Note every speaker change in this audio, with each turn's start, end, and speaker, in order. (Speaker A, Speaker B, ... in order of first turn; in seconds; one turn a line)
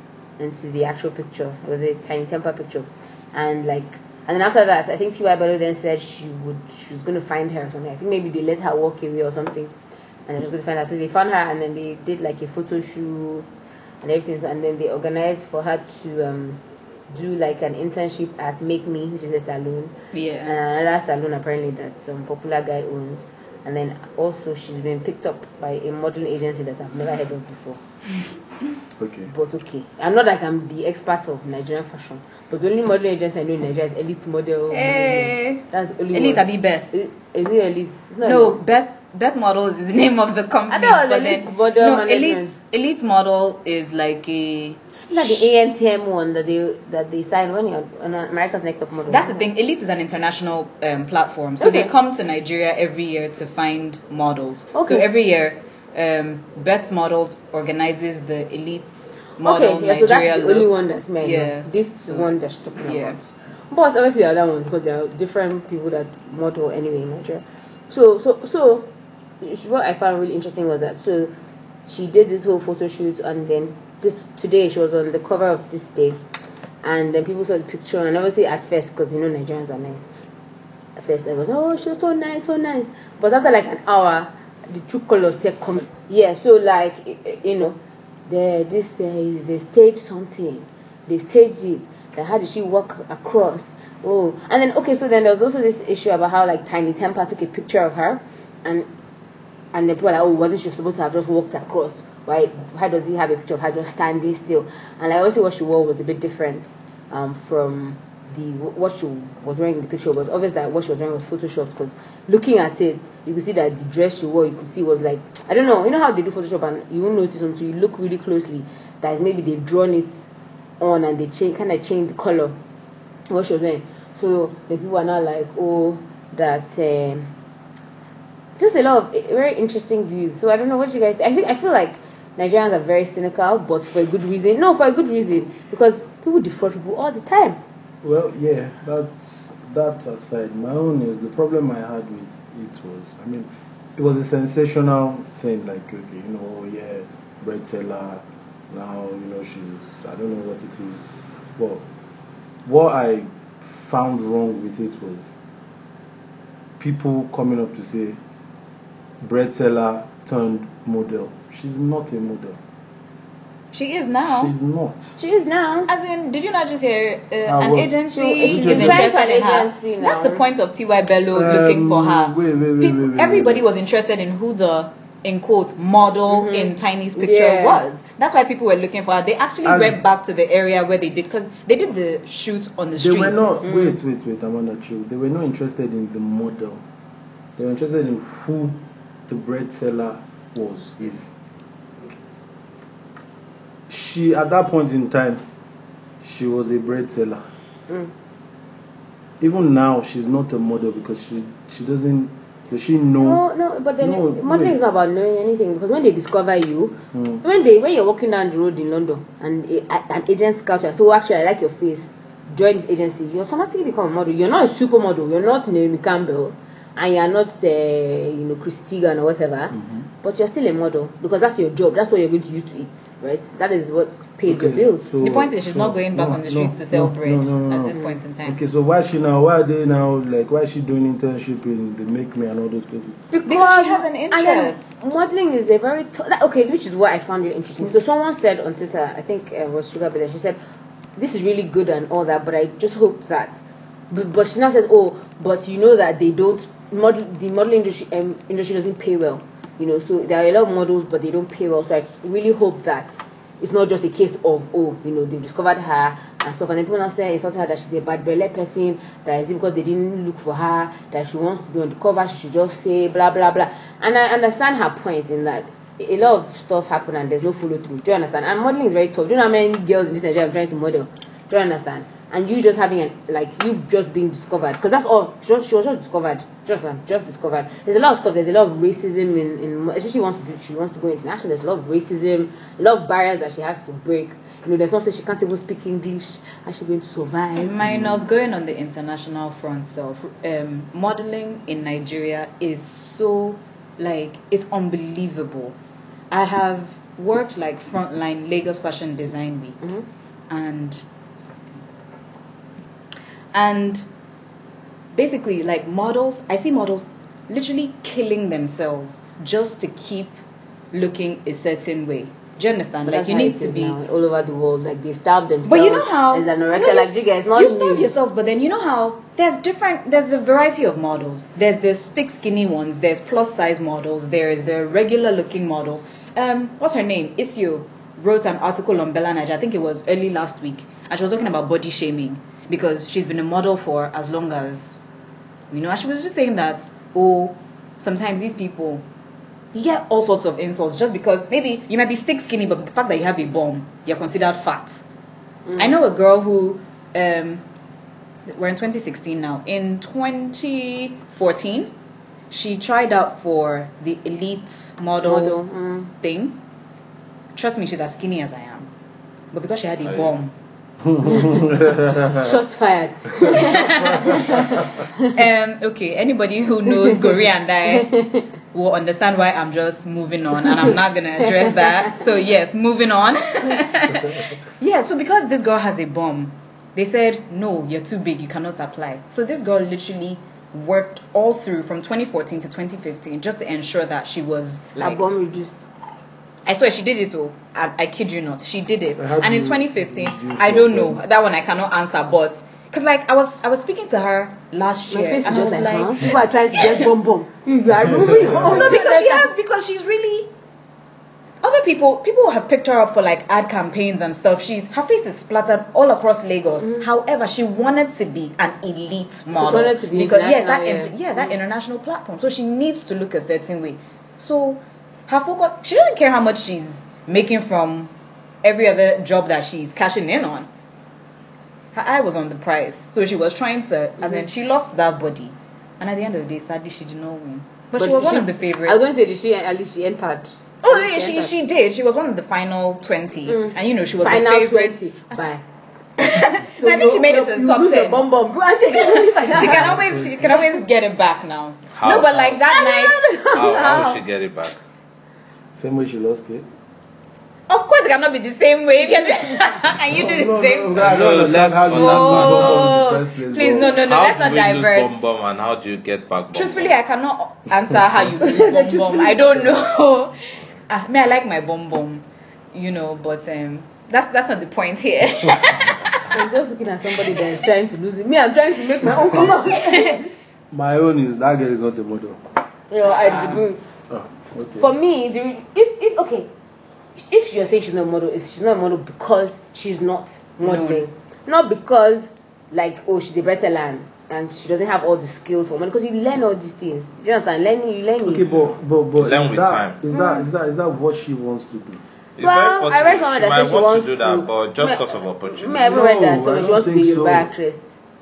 Speaker A: 0.4-9.7
Speaker A: 10.3-13.5
Speaker A: 14.0-19.9
Speaker B: 20.1-20.6
Speaker A: 20.4-27.8
Speaker C: 29.0-29.3
Speaker A: 29.3-38.6
Speaker B: 34.7-36.9
Speaker B: 38.2-45.5
Speaker A: 40.7-42.5
Speaker A: 45.1-49.5
Speaker B: 49.1-62.3
Speaker A: 51.6-51.9
Speaker A: 54.7-55.1
Speaker A: 59.4-68.9
Speaker B: 62.9-63.2
Speaker A: 69.4-71.3
Speaker A: 71.8-76.2
Speaker A: 76.8-80.1
Speaker A: 81.0-98.9
Speaker A: 99.7-120.3
Speaker A: 120.8-122.6
Speaker A: 123.3-127.3
Speaker A: 128.6-137.6
Speaker C: 138.0-151.8
Speaker C: 152.7-155.3
Speaker C: 156.8-158.2
Speaker C: 159.2-162.6
Speaker B: 163.7-164.5
Speaker C: 164.2-165.2
Speaker A: 165.2-165.9
Speaker B: 165.9-183.5
Speaker C: 167.5-169.1
Speaker A: 168.1-170.4
Speaker C: 171.3-173.7
Speaker A: 176.3-177.8
Speaker C: 179.6-180.0
Speaker C: 183.0-186.8
Speaker A: 183.6-184.0
Speaker C: 187.6-191.3
Speaker C: 193.9-195.4
Speaker C: 196.2-197.4
Speaker C: 199.4-203.4
Speaker A: 203.2-225.1
Speaker C: 204.0-204.8
Speaker C: 207.1-207.4
Speaker C: 219.7-220.1
Speaker C: 224.5-233.2
Speaker B: 225.2-228.6
Speaker A: 233.3-240.6
Speaker B: 233.5-235.0
Speaker A: 241.2-287.7
Speaker B: 287.6-295.8
Speaker C: 287.8-288.2
Speaker B: 296.3-299.8
Speaker B: 300.5-301.8
Speaker B: 303.5-304.1
Speaker B: 305.1-310.4
Speaker B: 310.9-314.0
Speaker A: 313.1-318.2
Speaker B: 315.7-335.0
Speaker B: 335.7-339.1
Speaker B: 339.7-345.0
Speaker A: 345.7-346.0
Speaker B: 345.8-347.6
Speaker B: 348.5-351.9
Speaker B: 352.5-355.6
Speaker A: 355.2-356.1
Speaker B: 356.2-356.6
Speaker B: 357.5-358.9
Speaker B: 359.5-360.5
Speaker D: 360.0-360.3
Speaker C: 361.1-362.5
Speaker A: 361.2-361.6
Speaker A: 362.3-365.3
Speaker B: 363.4-368.2
Speaker C: 364.1-364.8
Speaker A: 367.9-368.5
Speaker B: 368.7-385.2
Speaker A: 371.6-372.2
Speaker A: 385.0-385.9
Speaker B: 386.7-397.1
Speaker C: 389.2-391.2
Speaker A: 395.1-399.5
Speaker C: 398.3-398.6
Speaker B: 398.4-400.5
Speaker B: 401.6-418.1
Speaker A: 409.6-411.2
Speaker B: 418.6-420.7
Speaker B: 421.9-429.0
Speaker A: 428.0-431.5
Speaker B: 430.8-435.0
Speaker A: 433.5-435.6
Speaker B: 436.2-438.2
Speaker A: 436.6-439.9
Speaker B: 438.9-443.3
Speaker C: 439.6-440.6
Speaker D: 441.9-442.5
Speaker A: 442.7-444.2
Speaker D: 443.5-444.8
Speaker C: 445.8-446.7
Speaker B: 447.7-451.0
Speaker C: 450.1-454.0
Speaker D: 451.0-453.0
Speaker B: 451.9-455.2
Speaker D: 453.9-457.0
Speaker B: 456.5-466.4
Speaker A: 458.4-459.7
Speaker A: 466.3-470.3
Speaker B: 469.6-470.2
Speaker C: 470.7-472.4
Speaker A: 472.9-473.8
Speaker B: 473.1-473.6
Speaker C: 474.1-474.9
Speaker A: 474.8-476.5
Speaker A: 477.2-488.5
Speaker B: 480.6-481.0
Speaker C: 488.2-492.0
Speaker D: 489.2-490.0
Speaker A: 490.1-490.5
Speaker D: 492.4-496.0
Speaker A: 492.4-497.9
Speaker C: 495.8-497.5